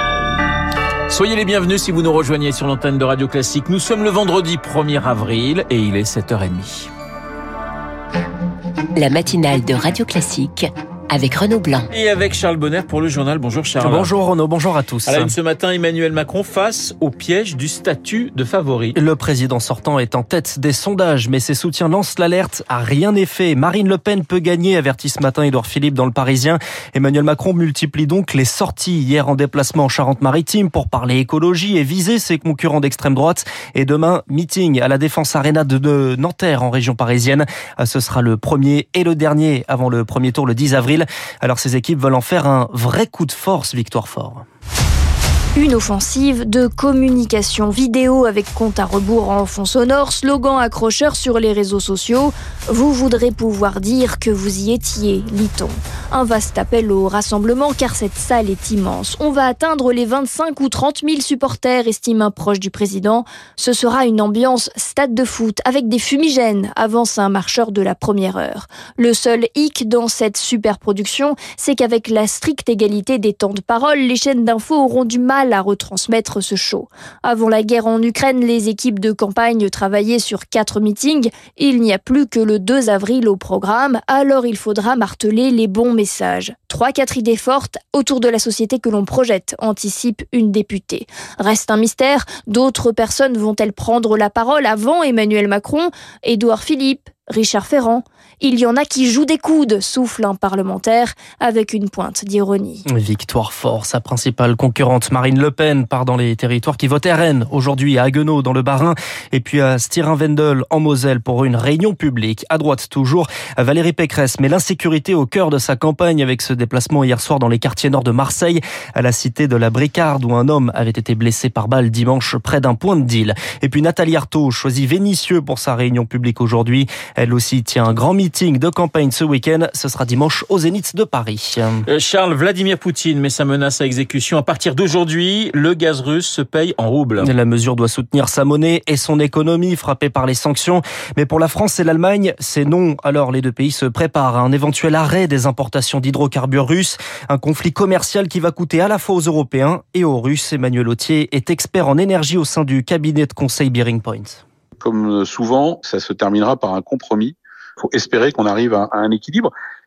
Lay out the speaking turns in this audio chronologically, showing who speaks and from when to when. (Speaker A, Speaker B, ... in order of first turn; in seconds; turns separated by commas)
Speaker A: 1.1-6.9, Speaker B: 8.9-11.9, Speaker A: 11.9-14.1, Speaker C: 13.8-15.3, Speaker A: 15.1-18.9, Speaker C: 18.9-44.4, Speaker D: 45.5-102.8, Speaker C: 102.9-131.8, Speaker A: 131.9-137.3, Speaker C: 137.2-154.4, Speaker E: 154.8-159.5